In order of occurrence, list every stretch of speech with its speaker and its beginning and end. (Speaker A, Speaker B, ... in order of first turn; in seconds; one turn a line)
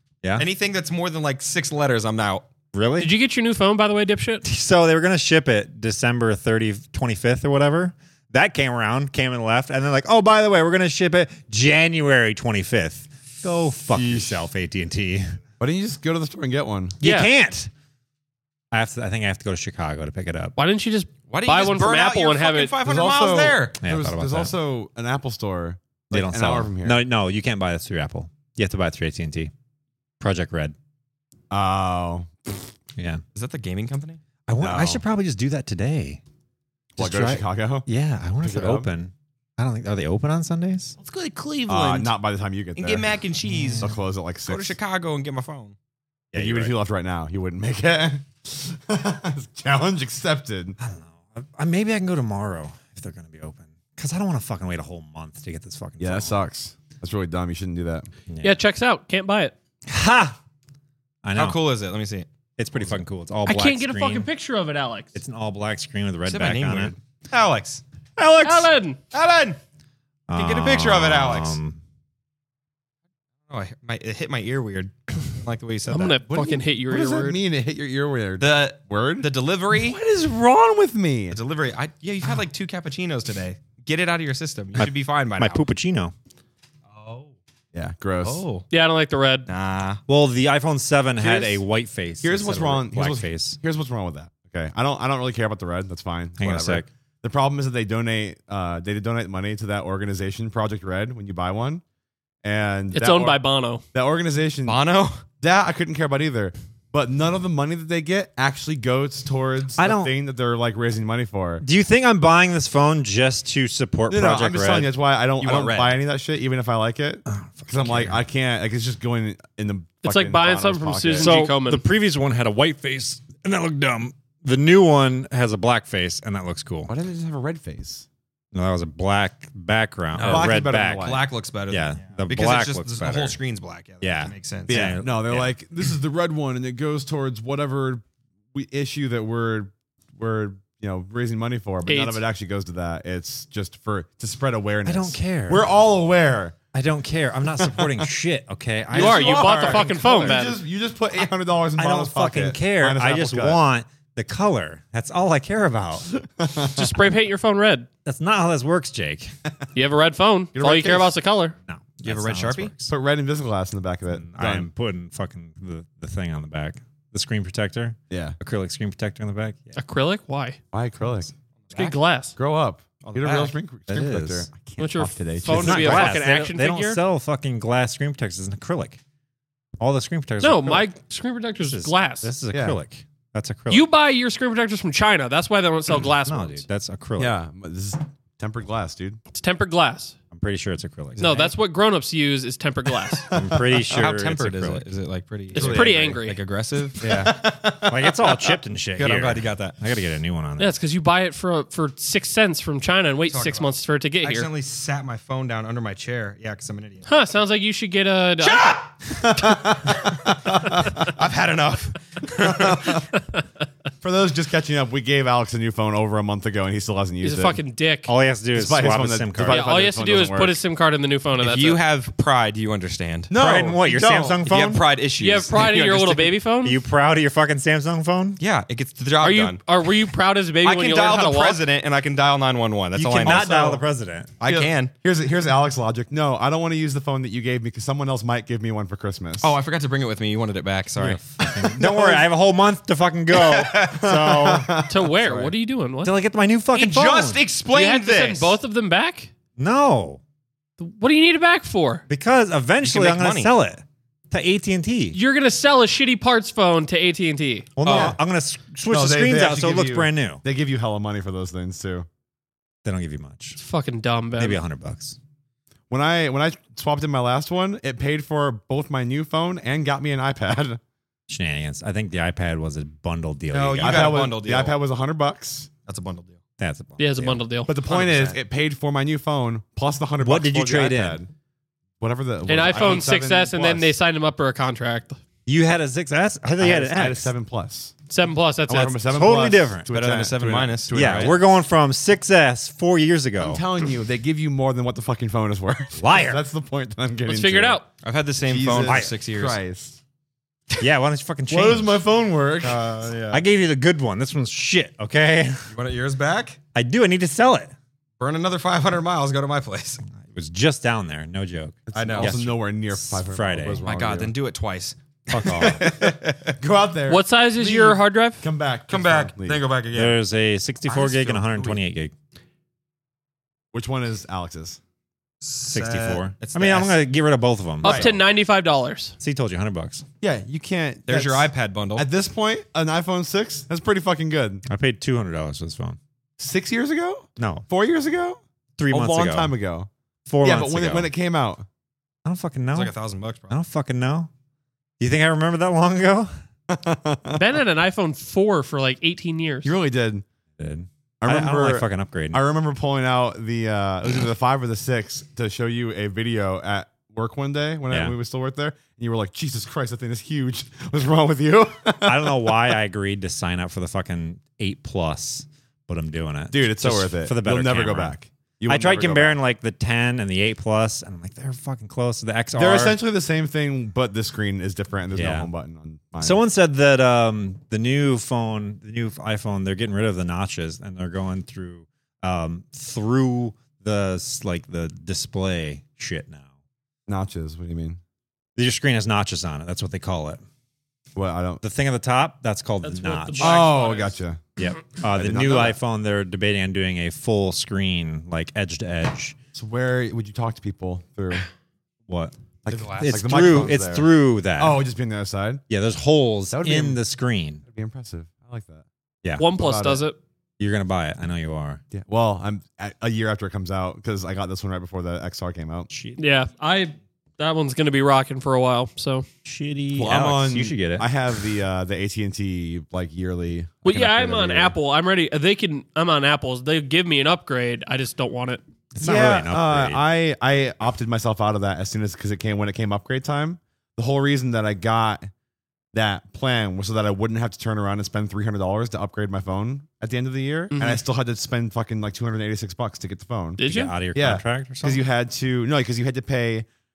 Speaker A: 0.4-2.5
Speaker B: 2.7-3.1
Speaker C: 3.0-4.4
Speaker B: 4.4-15.3
Speaker D: 14.0-14.3
Speaker D: 15.6-17.0
Speaker C: 17.0-17.3
Speaker B: 17.0-17.7
Speaker B: 18.7-20.5
Speaker C: 20.6-22.8
Speaker A: 21.3-23.8
Speaker D: 22.8-27.0
Speaker B: 23.8-24.5
Speaker B: 26.1-29.5
Speaker B: 30.2-30.7
Speaker D: 31.5-32.4
Speaker A: 33.3-34.2
Speaker B: 34.5-36.2
Speaker D: 34.6-35.0
Speaker D: 37.0-37.9
Speaker B: 37.0-41.0
Speaker D: 38.4-38.9
Speaker A: 41.0-42.1
Speaker D: 41.7-43.2
Speaker A: 42.8-43.9
Speaker B: 43.4-44.0
Speaker D: 43.8-44.8
Speaker A: 44.5-45.7
Speaker B: 46.3-46.7
Speaker D: 46.3-50.8
Speaker B: 50.8-56.4
Speaker D: 56.0-58.1
Speaker B: 58.3-58.6
Speaker C: 58.4-59.5
Speaker B: 59.9-60.4
Speaker B: 61.2-61.6
Speaker A: 61.3-62.3
Speaker B: 62.6-64.3
Speaker C: 63.5-65.1
Speaker B: 65.1-67.0
Speaker A: 66.2-69.6
Speaker C: 68.4-69.0
Speaker B: 70.3-71.8
Speaker A: 70.3-71.6
Speaker A: 73.5-76.6
Speaker C: 75.9-77.4
Speaker D: 76.9-81.4
Speaker A: 78.4-80.0
Speaker A: 81.3-85.6
Speaker B: 84.8-86.1
Speaker A: 86.9-87.3
Speaker D: 87.7-88.4
Speaker A: 88.2-88.7
Speaker C: 88.7-89.5
Speaker A: 89.5-90.0
Speaker B: 90.1-93.6
Speaker D: 91.2-91.5
Speaker D: 92.2-101.8
Speaker B: 96.4-96.9
Speaker D: 102.4-103.4
Speaker C: 102.9-103.8
Speaker D: 103.9-104.8
Speaker A: 104.7-105.2
Speaker D: 105.4-111.6
Speaker B: 109.8-110.1
Speaker B: 111.6-114.9
Speaker D: 114.1-121.3
Speaker A: 115.4-116.0
Speaker B: 117.3-118.2
Speaker C: 120.0-121.8
Speaker B: 121.2-126.9
Speaker D: 126.9-128.1
Speaker B: 128.5-133.4
Speaker A: 130.1-135.0
Speaker D: 130.2-131.3
Speaker B: 134.0-135.5
Speaker D: 134.7-146.6
Speaker C: 141.8-142.2
Speaker B: 144.8-145.6
Speaker B: 146.7-150.3
Speaker D: 148.9-153.6
Speaker C: 148.9-150.6
Speaker B: 151.8-156.1
Speaker D: 156.4-156.9
Speaker C: 156.7-157.9
Speaker B: 158.0-159.3
Speaker C: 159.7-161.5
Speaker D: 160.5-161.1
Speaker B: 161.7-162.9
Speaker A: 162.0-162.7
Speaker D: 162.9-164.7
Speaker B: 164.2-169.6
Speaker D: 168.1-168.3
Speaker C: 169.7-170.6
Speaker D: 170.7-171.3
Speaker A: 171.6-172.0
Speaker C: 171.7-172.3
Speaker D: 172.4-176.2
Speaker A: 173.0-173.6
Speaker B: 173.9-174.5
Speaker C: 174.8-177.0
Speaker B: 175.5-179.0
Speaker B: 179.8-180.9
Speaker C: 180.4-182.3
Speaker B: 181.6-183.9
Speaker D: 182.5-182.8
Speaker C: 183.7-186.6
Speaker B: 186.0-187.3
Speaker D: 187.2-189.2
Speaker C: 189.3-190.1
Speaker B: 190.3-191.3
Speaker A: 191.2-191.5
Speaker C: 191.2-193.3
Speaker B: 193.3-194.9
Speaker A: 193.9-198.1
Speaker C: 195.5-196.4
Speaker D: 195.6-195.8
Speaker D: 197.0-197.9
Speaker B: 197.1-200.7
Speaker A: 198.9-199.8
Speaker C: 200.6-204.5
Speaker A: 203.3-207.1
Speaker C: 207.1-208.7
Speaker A: 208.4-208.9
Speaker D: 209.1-211.1
Speaker A: 210.8-213.0
Speaker D: 212.4-213.0
Speaker D: 214.0-217.6
Speaker C: 217.2-218.1
Speaker B: 218.1-219.7
Speaker D: 218.5-220.6
Speaker C: 219.5-221.8
Speaker A: 221.4-223.3
Speaker D: 223.3-224.4
Speaker B: 223.3-224.8
Speaker A: 224.4-226.3
Speaker C: 225.2-226.8
Speaker B: 226.6-228.4
Speaker A: 228.4-229.6
Speaker C: 229.2-231.6
Speaker A: 230.6-233.5
Speaker B: 232.9-234.3
Speaker D: 233.2-233.8
Speaker A: 234.4-234.9
Speaker D: 234.4-239.6
Speaker A: 239.4-241.2
Speaker B: 241.0-244.7
Speaker D: 241.4-242.2
Speaker A: 243.3-244.1
Speaker D: 243.9-245.0
Speaker C: 244.8-246.1
Speaker A: 245.2-245.5
Speaker B: 246.0-247.4
Speaker A: 246.7-248.6
Speaker C: 247.7-249.3
Speaker B: 249.6-250.2
Speaker C: 250.8-252.0
Speaker B: 252.1-255.2
Speaker A: 252.8-253.5
Speaker C: 255.1-257.7
Speaker B: 257.8-260.4
Speaker A: 257.8-258.1
Speaker D: 257.9-258.1
Speaker D: 258.9-262.1
Speaker B: 262.8-263.6
Speaker C: 263.6-264.6
Speaker B: 264.4-265.2
Speaker D: 265.9-270.8
Speaker B: 271.3-274.2
Speaker A: 273.5-274.8
Speaker D: 273.8-275.7
Speaker A: 275.9-276.4
Speaker B: 276.6-277.4
Speaker C: 277.0-277.7
Speaker D: 277.7-281.3
Speaker A: 277.8-278.4
Speaker B: 280.2-281.2
Speaker D: 282.0-283.9
Speaker C: 282.5-285.2
Speaker B: 285.4-287.3
Speaker D: 286.6-287.9
Speaker C: 288.1-289.0
Speaker D: 288.7-291.4
Speaker B: 289.1-289.8
Speaker A: 289.9-291.4
Speaker B: 290.9-293.6
Speaker D: 293.4-297.8
Speaker B: 295.9-296.4
Speaker C: 297.3-297.9
Speaker A: 298.0-299.6
Speaker D: 298.4-300.0
Speaker B: 298.8-299.1
Speaker B: 300.8-302.0
Speaker D: 301.5-302.8
Speaker A: 302.6-303.4
Speaker B: 303.3-305.7
Speaker A: 305.7-306.6
Speaker B: 306.7-307.7
Speaker A: 308.2-310.0
Speaker B: 310.2-313.8
Speaker D: 311.9-314.3
Speaker A: 311.9-312.4
Speaker A: 313.8-316.6
Speaker B: 315.3-315.9
Speaker D: 315.5-319.6
Speaker C: 317.1-318.4
Speaker A: 318.9-320.2
Speaker B: 319.9-322.1
Speaker A: 320.8-321.8
Speaker D: 323.7-324.8
Speaker A: 325.4-327.0
Speaker B: 325.7-328.2
Speaker C: 327.8-329.1
Speaker D: 327.8-328.1
Speaker B: 329.2-330.0
Speaker D: 330.2-334.6
Speaker A: 331.1-332.1
Speaker B: 334.6-336.0
Speaker D: 336.4-339.9
Speaker B: 337.4-337.6
Speaker B: 338.8-339.5
Speaker B: 340.3-341.1
Speaker D: 340.4-341.6
Speaker B: 342.2-342.9
Speaker A: 342.7-343.5
Speaker B: 343.5-344.3
Speaker B: 345.0-346.3
Speaker D: 346.7-347.4
Speaker C: 347.4-349.7
Speaker D: 349.6-350.2
Speaker B: 350.6-352.4
Speaker D: 351.2-362.7
Speaker B: 357.9-358.1
Speaker B: 362.0-373.0
Speaker D: 366.5-369.4
Speaker D: 372.6-376.4
Speaker B: 375.1-375.5
Speaker B: 376.2-386.4
Speaker D: 387.1-388.0
Speaker B: 388.6-390.4
Speaker D: 391.1-391.6
Speaker B: 391.6-393.6
Speaker C: 392.8-394.1
Speaker D: 393.4-394.4
Speaker B: 394.6-399.4
Speaker D: 395.1-395.8
Speaker D: 399.5-401.5
Speaker B: 402.1-404.8
Speaker D: 402.6-405.6
Speaker A: 402.7-403.3
Speaker B: 405.7-407.6
Speaker D: 406.5-407.0
Speaker D: 407.6-408.8
Speaker C: 409.4-410.2
Speaker D: 409.5-410.0
Speaker B: 410.6-411.8
Speaker D: 411.9-415.9
Speaker B: 415.9-416.2
Speaker C: 416.2-419.2
Speaker B: 419.4-421.5
Speaker D: 419.9-424.7
Speaker C: 423.8-428.6
Speaker B: 428.9-430.0
Speaker D: 429.0-435.3
Speaker D: 435.9-443.6
Speaker C: 440.7-441.0
Speaker C: 443.6-443.9
Speaker B: 443.6-445.0
Speaker D: 444.1-446.7